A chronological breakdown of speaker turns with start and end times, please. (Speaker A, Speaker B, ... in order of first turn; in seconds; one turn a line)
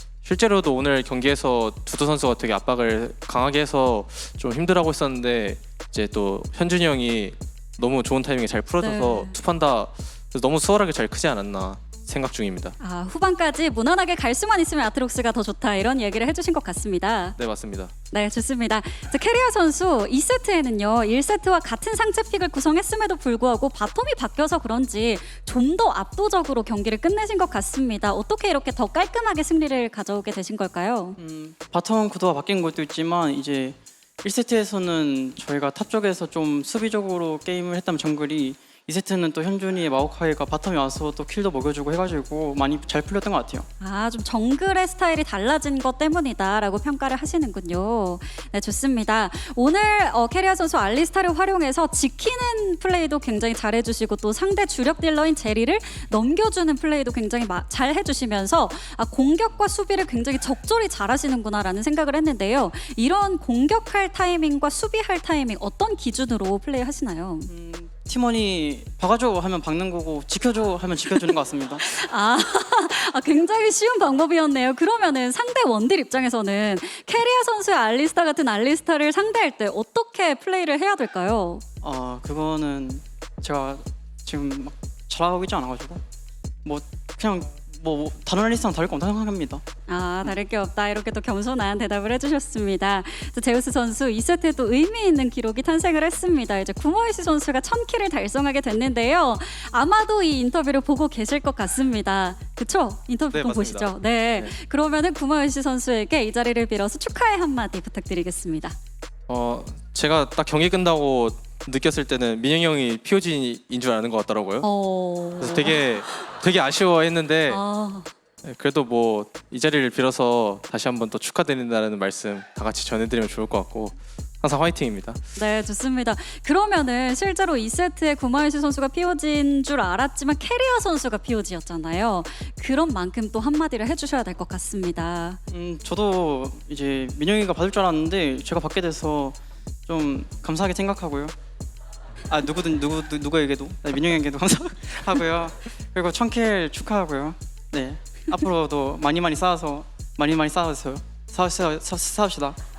Speaker A: 0.2-12.8
Speaker B: 8.8-9.3
Speaker B: 12.8-17.4
Speaker A: 17.4-17.9
Speaker B: 18.1-31.2
Speaker C: 31.2-43.7
Speaker B: 43.8-67.5
Speaker C: 67.5-71.9
Speaker B: 71.8-81.6
Speaker C: 81.8-86.0
Speaker C: 86.6-89.6
Speaker B: 89.9-108.8
Speaker A: 103.3-104.5
Speaker A: 109.3-114.7
Speaker B: 114.6-116.1
Speaker A: 115.4-117.6
Speaker B: 117.5-118.1
Speaker A: 118.4-125.2
Speaker B: 125.4-135.4
Speaker C: 135.5-141.3
Speaker C: 142.3-152.6